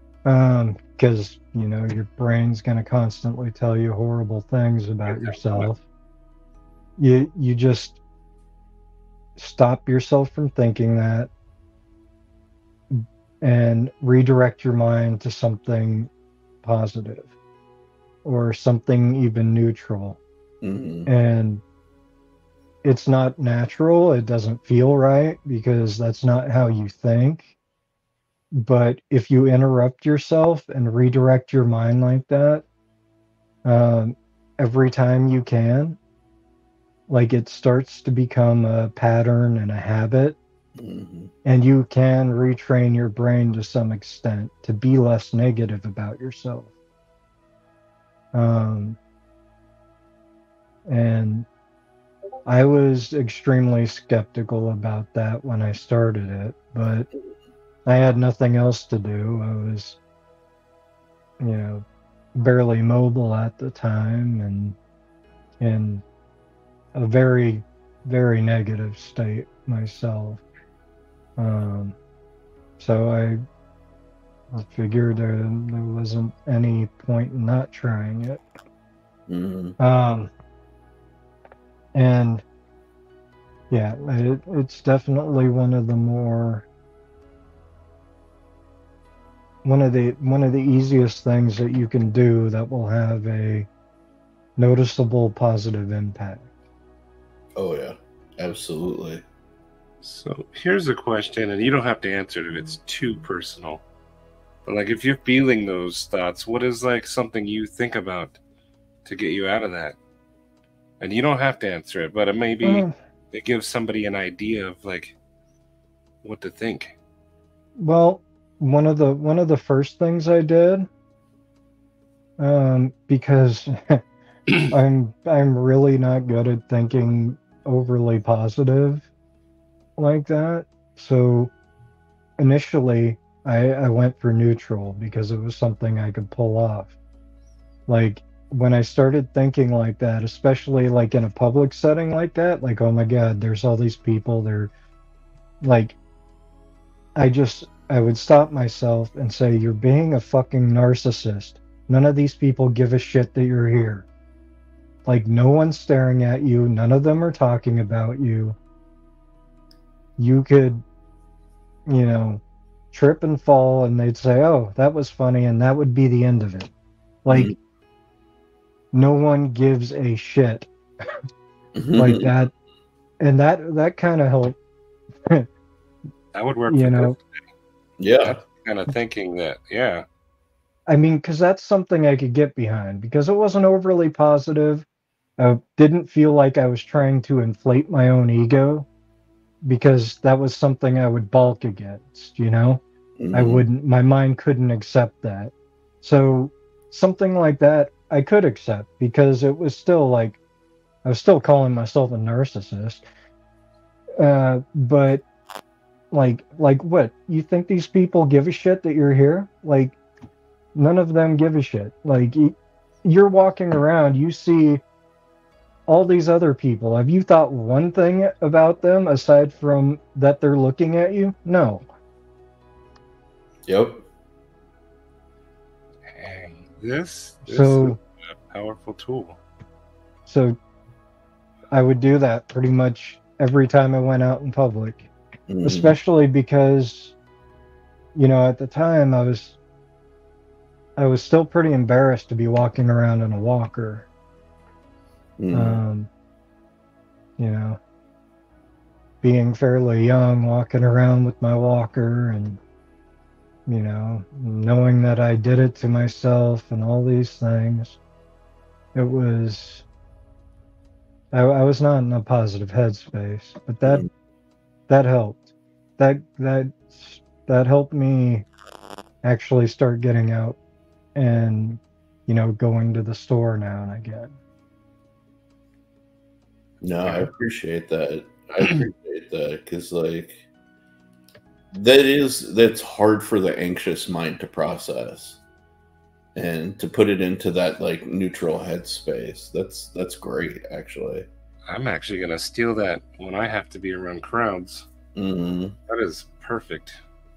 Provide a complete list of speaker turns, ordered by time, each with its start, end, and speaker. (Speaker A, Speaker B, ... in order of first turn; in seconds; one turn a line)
Speaker A: 0.2-5.8
Speaker B: 5.0-5.7
Speaker A: 7.0-8.0
Speaker A: 9.4-11.3
Speaker A: 12.9-16.1
Speaker A: 16.6-17.3
Speaker A: 18.2-20.2
Speaker C: 20.6-21.1
Speaker A: 21.1-21.6
Speaker A: 22.8-27.5
Speaker A: 28.5-32.6
Speaker A: 33.6-36.0
Speaker A: 37.1-40.4
Speaker C: 40.8-41.3
Speaker A: 41.4-46.7
Speaker A: 48.3-49.0
Speaker A: 50.9-51.5
Speaker A: 52.5-57.1
Speaker A: 57.9-60.0
Speaker A: 61.4-61.8
Speaker A: 62.3-64.8
Speaker A: 65.6-66.0
Speaker A: 66.9-70.4
Speaker A: 71.4-72.0
Speaker A: 72.8-73.4
Speaker A: 74.5-78.4
Speaker C: 79.3-79.8
Speaker A: 79.8-80.3
Speaker A: 81.9-82.4
Speaker A: 83.7-86.7
Speaker A: 89.6-93.7
Speaker A: 94.6-96.5
Speaker C: 97.5-99.2
Speaker B: 100.0-103.8
Speaker B: 104.7-108.4
Speaker B: 109.0-110.0
Speaker B: 111.0-115.1
Speaker A: 112.6-112.9
Speaker B: 116.2-116.9
Speaker A: 117.8-120.9
Speaker A: 122.4-124.0
Speaker A: 124.7-129.1
Speaker A: 130.0-131.5
Speaker A: 132.4-136.9
Speaker A: 137.9-144.7
Speaker A: 145.6-146.0
Speaker A: 147.2-154.1
Speaker A: 155.1-158.6
Speaker A: 160.2-160.8
Speaker A: 161.9-166.7
Speaker A: 167.2-167.5
Speaker C: 167.3-167.5
Speaker A: 168.9-170.7
Speaker C: 171.8-172.3
Speaker A: 171.9-172.5
Speaker A: 173.2-174.6
Speaker B: 176.3-177.2
Speaker A: 176.7-177.2
Speaker C: 178.0-178.4
Speaker B: 178.2-180.0
Speaker A: 180.9-184.8
Speaker A: 185.4-188.9
Speaker A: 189.6-192.8
Speaker C: 193.2-193.7
Speaker A: 193.3-200.4
Speaker A: 201.0-203.0
Speaker A: 204.2-205.2
Speaker A: 206.1-210.0
Speaker A: 210.7-214.8
Speaker A: 215.9-221.9
Speaker C: 223.7-224.1
Speaker B: 226.1-229.4
Speaker A: 227.5-228.0
Speaker A: 230.2-230.6
Speaker A: 231.7-235.1
Speaker C: 235.5-235.9
Speaker A: 235.6-237.2
Speaker A: 238.1-239.6
Speaker A: 241.0-244.1
Speaker C: 245.4-245.8
Speaker A: 245.5-246.1
Speaker A: 247.4-247.8
Speaker A: 249.2-252.6
Speaker A: 253.7-258.0
Speaker A: 258.9-259.8
Speaker A: 261.3-264.1
Speaker A: 264.9-265.5
Speaker A: 266.0-268.5
Speaker A: 269.2-270.6
Speaker A: 271.1-274.4
Speaker C: 276.8-280.4
Speaker C: 281.7-285.4
Speaker C: 286.3-291.3
Speaker B: 291.7-294.9
Speaker C: 295.1-295.8
Speaker B: 295.9-297.0